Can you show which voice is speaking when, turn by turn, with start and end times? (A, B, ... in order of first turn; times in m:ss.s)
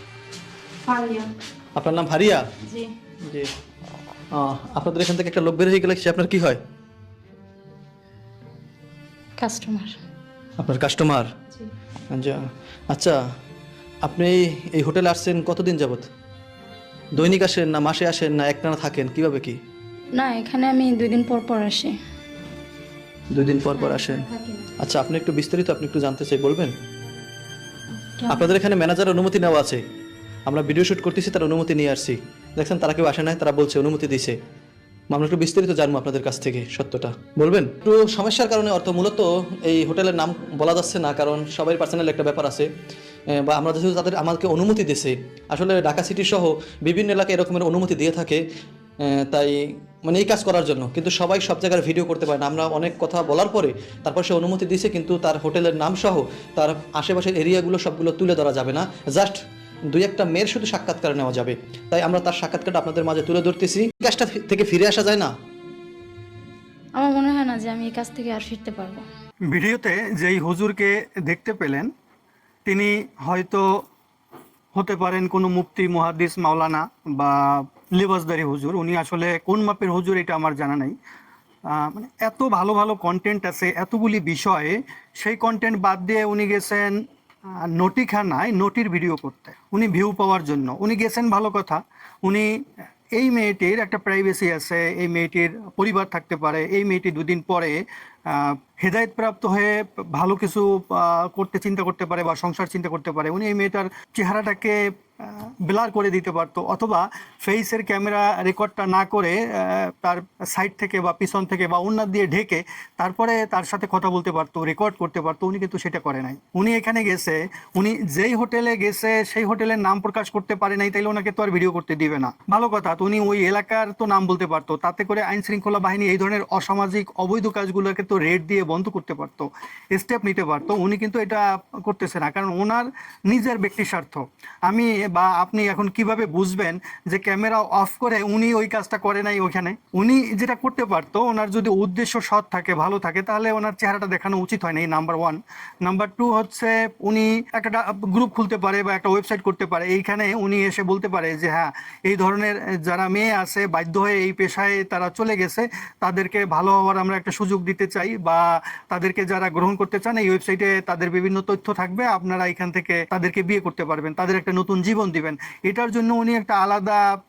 0:00.8-0:01.3 A
0:01.8-0:02.4 B
0:02.6-0:02.9 A
0:03.2-0:03.5 B
0:04.3-0:06.6 B
0:09.4-0:10.0 A
0:10.6-0:11.3 B
0:12.1-0:13.2 B
0:14.0-0:16.1 B
0:17.2-0:19.6 B
0:20.1-0:22.0 A
0:23.3-0:24.3 B
0:23.8-0:24.7 A
0:24.8-0:26.7 B
0:28.2-0:28.5 A
0:28.3-0:29.8 B
0:30.5-0:34.4 B
0:35.1-0:42.7 B
0:43.3-0:48.4 B
0:49.0-1:05.3 B
1:07.0-1:09.0 A
1:09.5-1:11.9 C
1:12.7-1:13.7 C
1:14.8-1:21.0 C
1:21.7-1:27.0 C
1:27.7-1:32.6 C
1:33.2-2:47.0 C